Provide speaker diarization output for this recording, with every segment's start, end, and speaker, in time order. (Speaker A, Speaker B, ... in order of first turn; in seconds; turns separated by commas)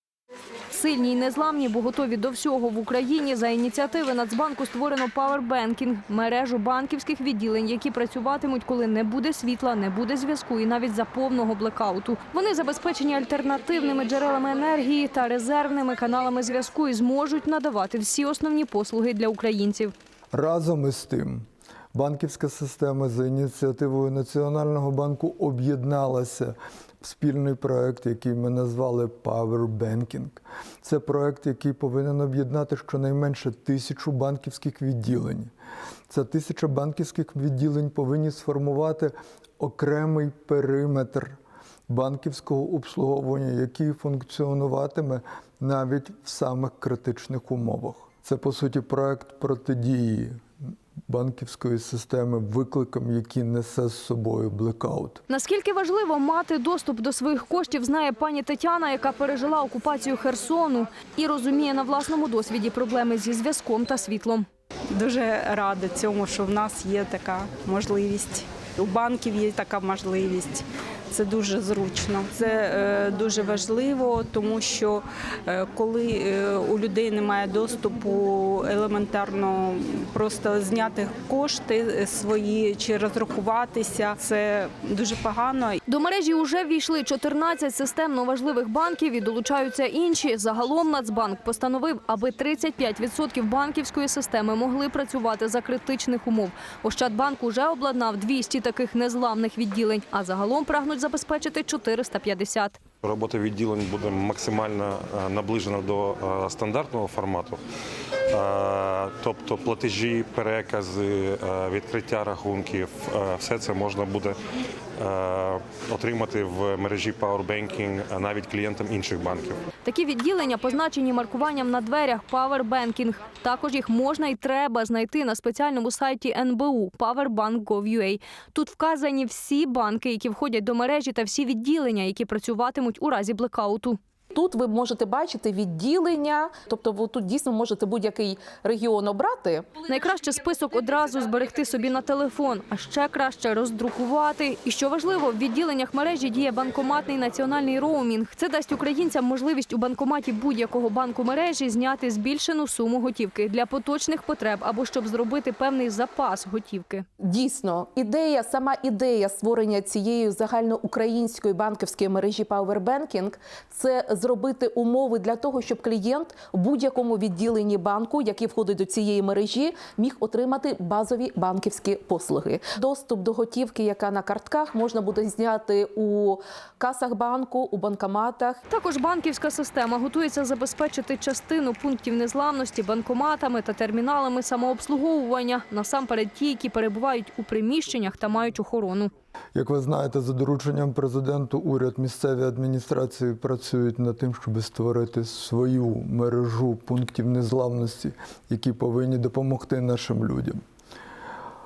Speaker A: 0.7-19.9, Speaker B: 20.3-35.5, Speaker B: 36.1-41.4, Speaker B: 41.9-50.4, Speaker B: 51.1-55.2, Speaker A: 55.3-64.4, Speaker C: 64.9-85.8, Speaker A: 85.8-102.8, Speaker D: 103.0-107.6, Speaker D: 108.3-114.4, Speaker D: 115.0-119.6, Speaker A: 119.8-134.0, Speaker E: 134.3-139.7, Speaker A: 139.8-157.0, Speaker E: 157.2-178.6, Speaker A: 178.7-189.1, Speaker B: 189.5-200.6